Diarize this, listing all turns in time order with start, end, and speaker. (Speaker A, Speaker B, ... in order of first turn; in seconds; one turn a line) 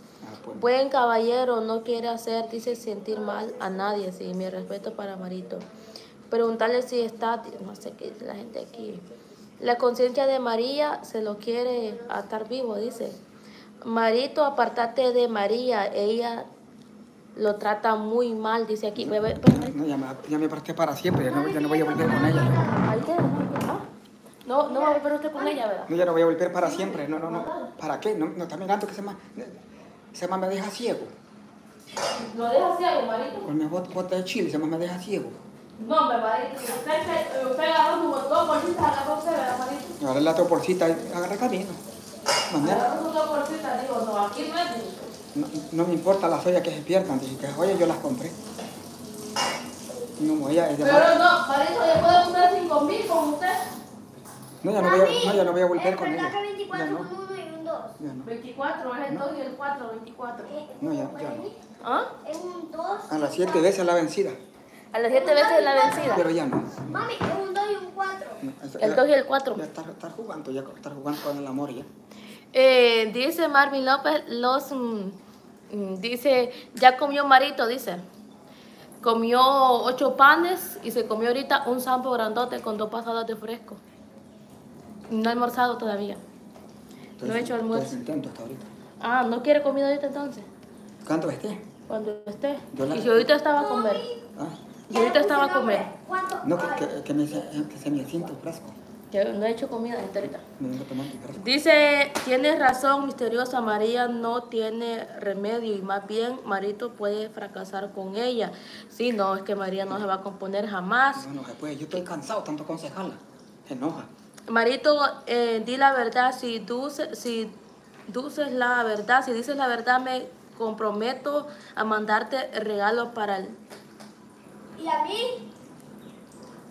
Speaker A: 0.2-0.7
Speaker B: 0.5-5.7
Speaker B: 6.3-9.0
Speaker B: 9.6-13.2
Speaker B: 13.8-16.5
Speaker B: 17.4-19.8
Speaker A: 19.0-22.7
Speaker C: 21.2-22.9
Speaker B: 22.2-23.9
Speaker B: 24.5-25.9
Speaker C: 24.7-25.5
Speaker A: 25.9-31.1
Speaker B: 26.7-27.7
Speaker B: 32.1-33.5
Speaker A: 33.4-35.4
Speaker B: 35.8-40.0
Speaker A: 40.0-41.8
Speaker A: 42.5-42.9
Speaker B: 42.6-45.1
Speaker A: 45.3-48.4
Speaker A: 50.2-51.1
Speaker B: 50.8-53.7
Speaker A: 54.6-57.1
Speaker C: 54.8-58.0
Speaker A: 58.0-58.3
Speaker B: 58.2-60.5
Speaker C: 60.5-61.6
Speaker A: 60.8-61.5
Speaker B: 61.8-62.1
Speaker C: 62.2-63.7
Speaker A: 63.1-64.4
Speaker B: 64.9-66.3
Speaker C: 65.1-66.3
Speaker A: 66.1-67.1
Speaker C: 66.9-68.4
Speaker A: 68.4-71.9
Speaker B: 68.8-69.6
Speaker B: 72.5-75.2
Speaker B: 75.7-78.0
Speaker B: 79.0-83.8
Speaker B: 85.1-86.2
Speaker A: 87.2-88.7
Speaker B: 87.2-88.0
Speaker B: 89.0-90.5
Speaker A: 91.0-91.6
Speaker B: 91.9-94.0
Speaker A: 92.7-93.3
Speaker C: 93.6-94.2
Speaker A: 94.4-94.6
Speaker B: 94.9-95.9
Speaker C: 94.9-97.1
Speaker A: 96.4-98.8
Speaker B: 99.1-100.4
Speaker A: 100.6-101.5
Speaker B: 101.3-111.3
Speaker A: 111.1-114.1
Speaker B: 114.5-117.5
Speaker B: 118.1-123.5
Speaker C: 124.8-125.4